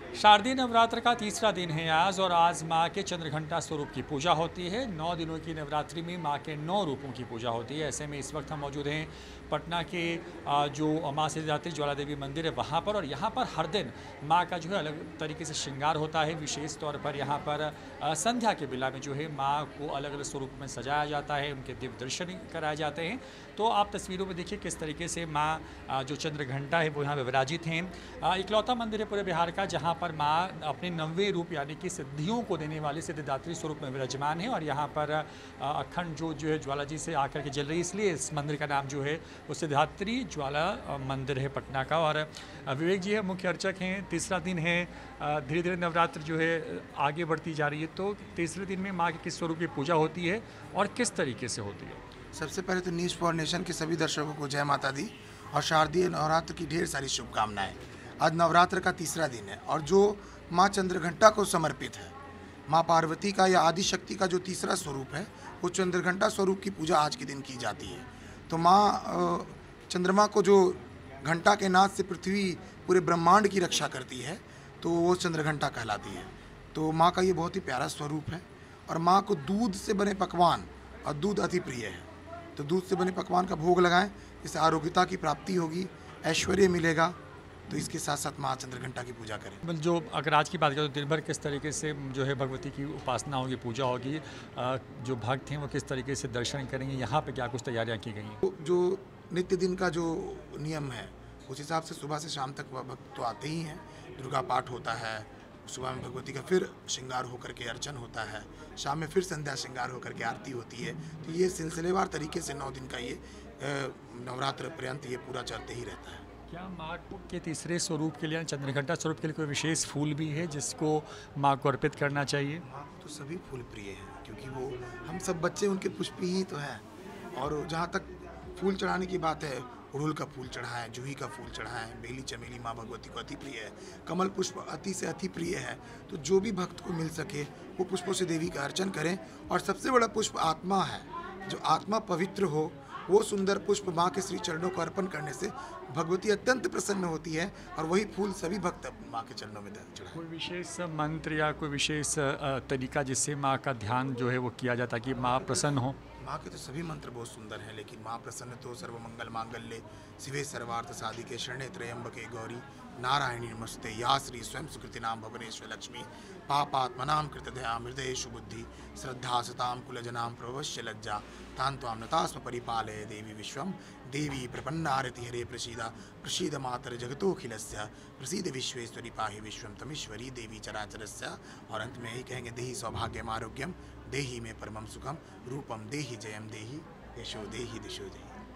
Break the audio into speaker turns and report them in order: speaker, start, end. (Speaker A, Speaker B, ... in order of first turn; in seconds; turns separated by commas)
Speaker A: 0.1-52.0, Speaker B: 52.3-62.2, Speaker B: 62.7-87.2, Speaker B: 87.7-89.6, Speaker A: 89.6-98.4, Speaker B: 98.4-116.2, Speaker A: 116.5-122.7, Speaker B: 122.7-126.8, Speaker B: 127.3-150.2, Speaker A: 150.1-156.0, Speaker B: 156.2-188.4